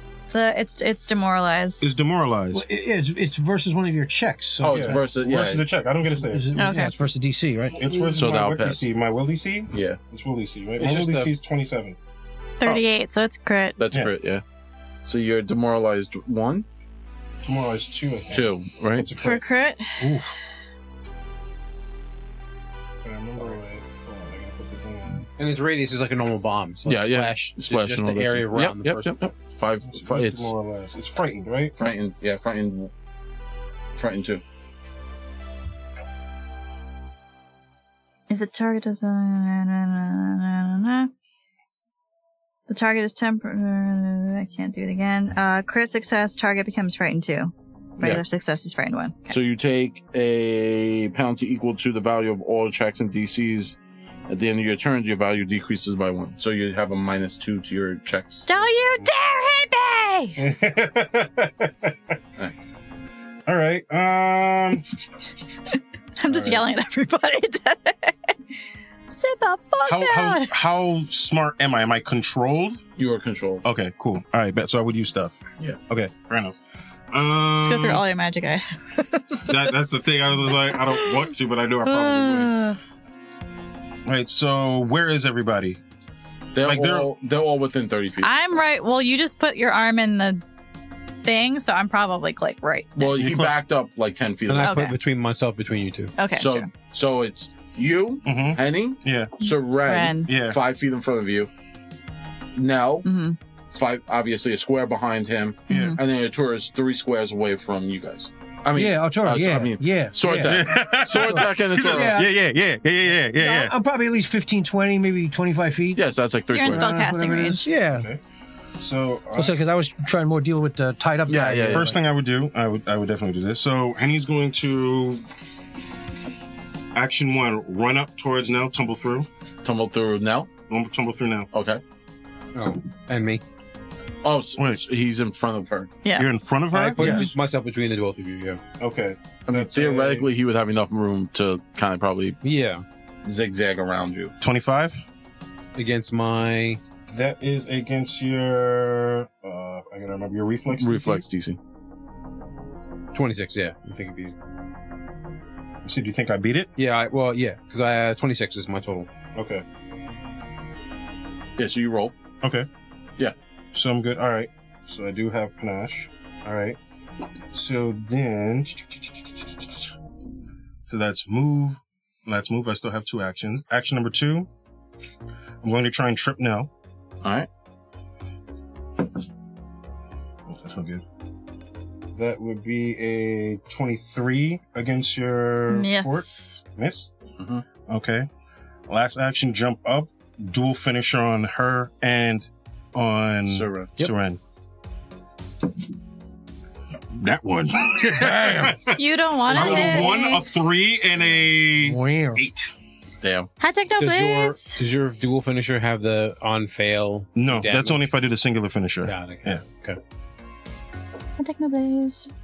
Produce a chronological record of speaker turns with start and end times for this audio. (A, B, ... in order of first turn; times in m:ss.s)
0:00.3-0:01.9 A
0:01.8-0:02.6 B
0:02.5-0:05.0 C
0:04.6-0:05.6 D
0:04.7-0:06.5 B
0:06.1-0:08.4 C
0:06.5-0:07.0 A
0:07.8-0:12.0 B
0:08.1-0:08.8 D
0:09.7-0:10.0 D
0:10.8-0:11.3 D
0:12.6-0:13.8 A
0:13.8-0:14.4 D
0:15.0-0:16.6 D
0:17.4-0:19.4 B
0:18.3-0:19.1 D
0:19.2-0:20.1 A
0:20.0-0:20.3 B
0:23.0-0:25.3 B
0:25.4-0:29.1 E
0:26.8-0:30.5 D
0:29.9-0:31.8 B
0:31.8-0:32.9 D
0:34.0-0:34.4 D
0:38.3-0:41.1 A
0:42.7-0:49.4 A
0:49.3-0:53.8 D
0:54.3-0:58.5 D
0:58.5-1:00.4 A
1:00.4-1:02.1 B
1:03.4-1:04.9 B
1:06.2-1:08.3 A
1:06.3-1:06.6 B
1:09.1-1:10.5 A
1:09.8-1:12.8 B
1:13.0-1:13.6 D
1:13.6-1:15.4 B
1:15.9-1:16.6 B
1:17.1-1:18.0 B
1:17.6-1:19.7 A
1:19.4-1:22.6 B
1:20.9-1:21.3 A
1:21.8-1:22.8 A
1:24.0-1:25.8 B
1:26.5-1:28.6 D
1:26.6-1:27.1 B
1:28.2-1:30.4 A
1:31.2-1:33.2 A
1:33.0-1:34.8 D
1:33.2-1:33.6 B
1:34.5-1:36.1 E
1:34.6-1:35.0 A
1:36.2-1:36.7 A
1:36.3-1:41.5 D
1:38.2-1:39.3 B
1:39.8-1:40.3 A
1:40.2-1:40.6 B
1:42.6-1:43.1 D
1:43.0-1:43.4 A
1:43.8-1:52.2 D
1:45.7-1:46.0 A
1:45.7-1:46.0 B
1:48.7-1:52.3 C
1:50.4-1:53.7 B
1:53.3-1:56.0 C
1:55.9-1:57.0 D
1:56.5-1:57.6 A
1:56.6-1:58.1 C
1:57.9-1:58.2 B
1:58.8-1:59.6 B
1:59.3-2:02.0 C
2:01.3-2:01.9 D
2:01.7-2:05.2 B
2:06.9-2:09.3 B
2:09.6-2:10.5 D
2:10.7-2:11.5 B
2:11.5-2:11.8 D
2:12.5-2:13.4 E
2:14.2-2:15.9 D
2:16.0-2:16.3 A
2:16.2-2:17.3 B
2:16.7-2:18.6 E
2:17.0-2:17.3 D
2:18.8-2:20.3 B
2:19.5-2:22.4 D
2:22.4-2:22.8 E
2:23.2-2:24.3 D
2:24.4-2:25.0 B
2:25.7-2:26.8 E
2:27.1-2:31.2 B
2:30.7-2:31.6 D
2:33.1-2:34.3 E
2:35.8-2:36.7 B
2:36.8-2:39.1 E
2:39.3-2:39.6 B
2:41.6-2:42.2 D
2:42.4-2:42.7 B
2:43.7-2:46.8 B
2:47.5-2:49.4 B
2:50.9-2:54.5 B
2:55.6-2:56.7 B
2:57.2-2:57.5 D
3:00.5-3:01.0 B
3:02.1-3:07.1 B
3:05.7-3:06.6 A
3:07.4-3:07.6 D
3:07.8-3:08.3 B
3:08.9-3:14.4 B
3:13.5-3:13.9 D
3:17.1-3:22.7 B
3:18.9-3:20.5 A
3:19.5-3:20.1 D
3:21.2-3:21.4 D
3:21.7-3:22.4 C
3:23.2-3:23.5 D
3:23.6-3:24.8 A
3:24.0-3:28.0 E
3:27.4-3:29.6 B
3:29.0-3:30.0 E
3:31.4-3:32.3 A